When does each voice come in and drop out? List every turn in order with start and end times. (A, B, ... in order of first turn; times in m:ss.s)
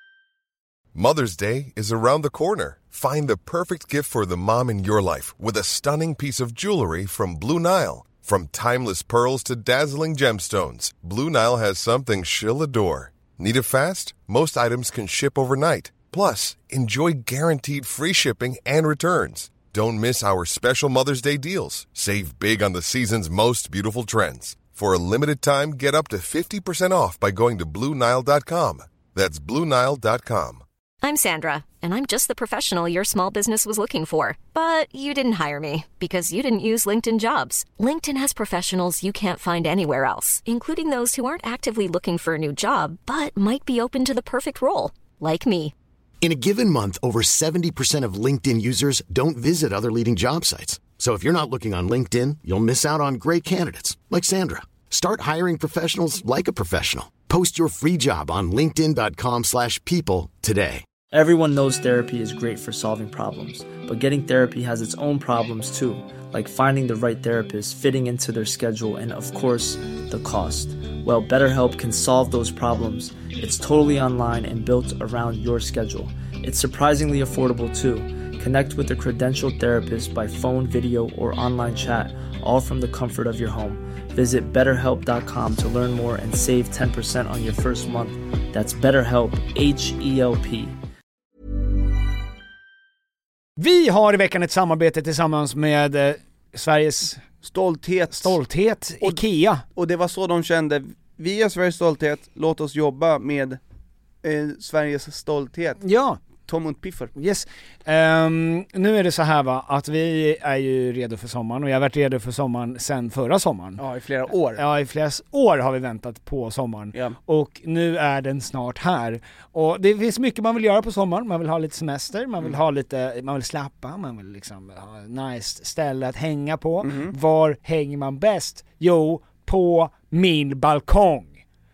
0:00.9-0:30.6 A
0:31.0-0:45.7 B
0:46.2-1:00.8 C
1:01.1-1:30.8 D
1:33.6-1:37.3 E
1:37.4-1:38.4 F
1:38.1-1:39.6 E
1:39.7-1:43.6 F
1:44.2-1:45.8 F
1:45.8-1:46.2 E
1:46.5-1:47.1 F
1:47.1-1:53.8 E
1:53.8-1:54.6 F
1:54.5-2:11.4 E
2:06.8-2:07.1 F